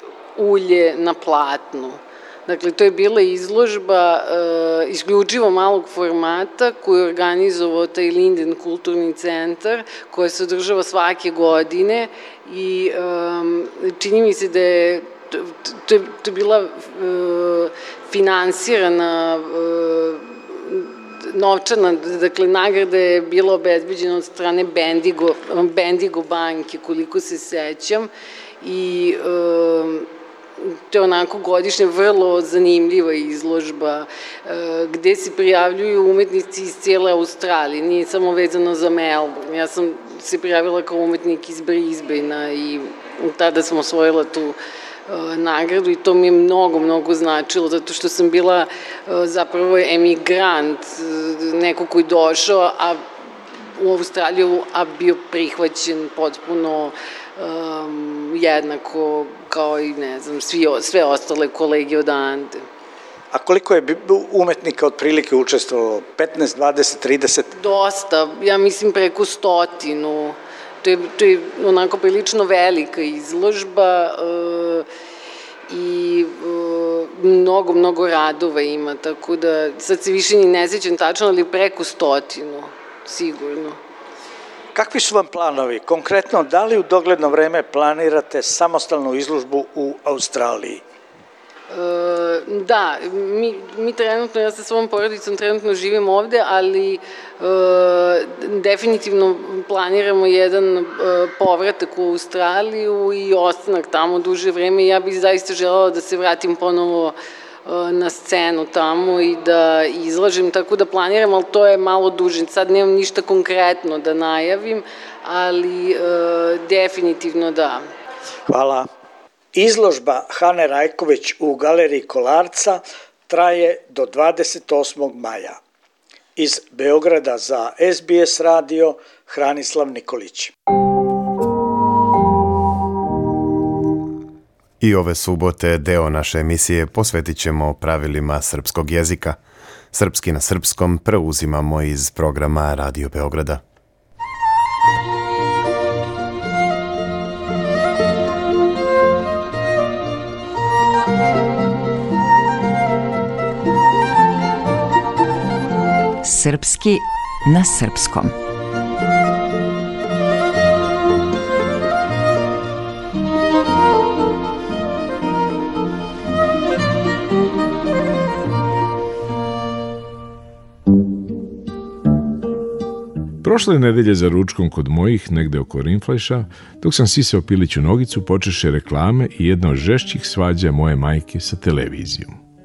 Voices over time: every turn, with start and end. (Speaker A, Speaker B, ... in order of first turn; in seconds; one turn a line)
Speaker A: 0.4-28.1
Speaker A: 28.6-30.1
Speaker A: 30.6-53.0
Speaker A: 53.8-62.6
Speaker B: 63.3-67.5
Speaker A: 67.6-74.9
Speaker A: 75.7-83.8
Speaker B: 84.7-90.8
Speaker A: 91.7-117.8
Speaker B: 118.5-118.9
Speaker B: 119.5-125.6
Speaker B: 126.4-130.5
Speaker C: 134.8-139.4
Speaker C: 139.9-143.6
Speaker D: 156.2-158.3
Speaker E: 173.4-182.4